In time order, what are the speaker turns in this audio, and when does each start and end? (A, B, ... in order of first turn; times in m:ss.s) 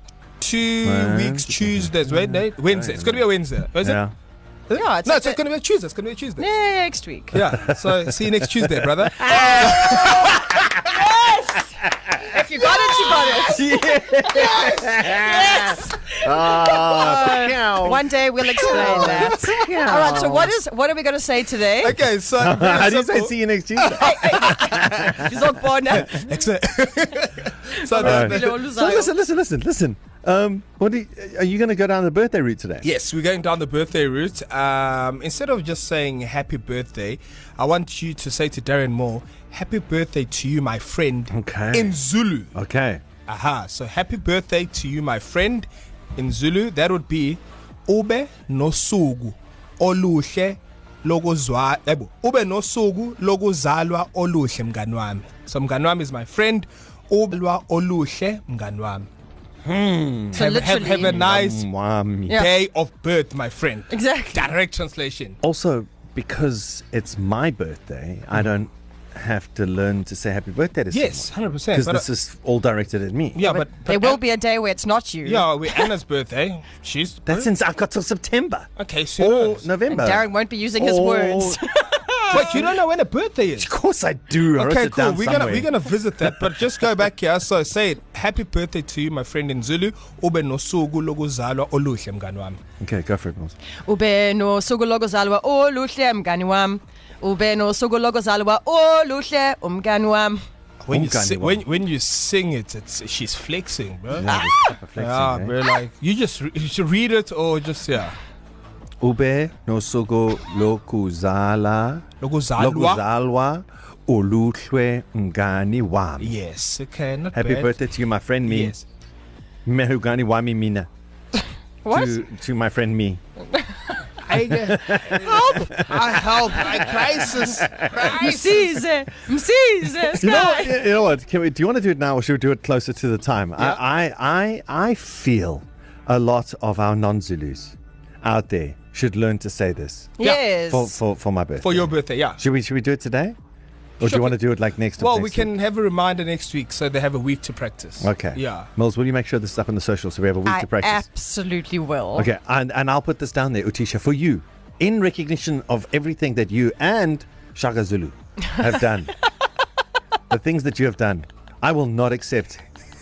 0:00.4-0:04.0 A
0:00.8-0:04.1 B
0:04.7-0:06.4 A
0:04.7-0:05.4 C
0:06.4-0:07.4 C
0:07.3-0:10.4 A
0:07.4-0:11.0 B
0:09.2-0:13.7 C
0:12.3-0:13.6 A
0:13.0-0:20.5 B
0:14.2-0:15.2 A
0:15.0-0:22.0 C
0:18.6-0:19.6 A
0:21.8-0:25.2 A
0:22.3-0:25.3 B
0:23.9-0:26.3 C
0:25.9-0:28.6 A
0:27.7-0:29.2 C
0:28.0-0:32.8 B
0:32.8-0:42.5 A
0:41.3-0:42.0 B
0:42.5-0:43.0 B
0:43.3-0:59.1 A
0:59.6-1:02.4 B
1:00.3-1:01.2 C
1:00.3-1:01.7 A
1:02.3-1:02.5 C
1:02.3-1:05.4 A
1:03.9-1:04.5 C
1:05.4-1:13.4 B
1:10.9-1:12.1 A
1:13.3-1:14.2 A
1:13.4-1:15.9 C
1:15.2-1:17.5 A
1:17.2-1:21.6 B
1:18.8-1:19.7 A
1:19.9-1:22.6 C
1:22.2-1:22.8 B
1:22.3-1:23.7 A
1:23.6-1:26.7 B
1:24.6-1:32.6 A
1:32.8-1:33.5 B
1:33.8-1:40.4 C
1:40.8-1:44.3 A
1:40.9-1:41.6 B
1:44.1-1:45.5 B
1:44.2-1:44.7 C
1:45.0-1:48.2 A
1:49.0-1:52.0 B
1:52.2-1:53.0 A
1:52.6-1:56.3 B
1:56.2-1:57.8 A
1:57.3-1:58.8 B
1:58.4-1:58.8 A
1:59.6-2:00.9 B
2:01.8-2:02.2 C
2:01.9-2:03.2 B
2:04.2-2:08.8 A
2:04.3-2:07.9 B
2:07.9-2:10.8 C
2:10.1-2:23.4 B
2:20.2-2:21.0 C
2:21.6-2:22.4 A
2:24.0-2:25.5 B
2:24.0-2:28.7 A
2:28.0-2:31.0 B
2:30.4-2:32.3 C
2:32.1-2:39.1 B
2:40.3-2:42.6 B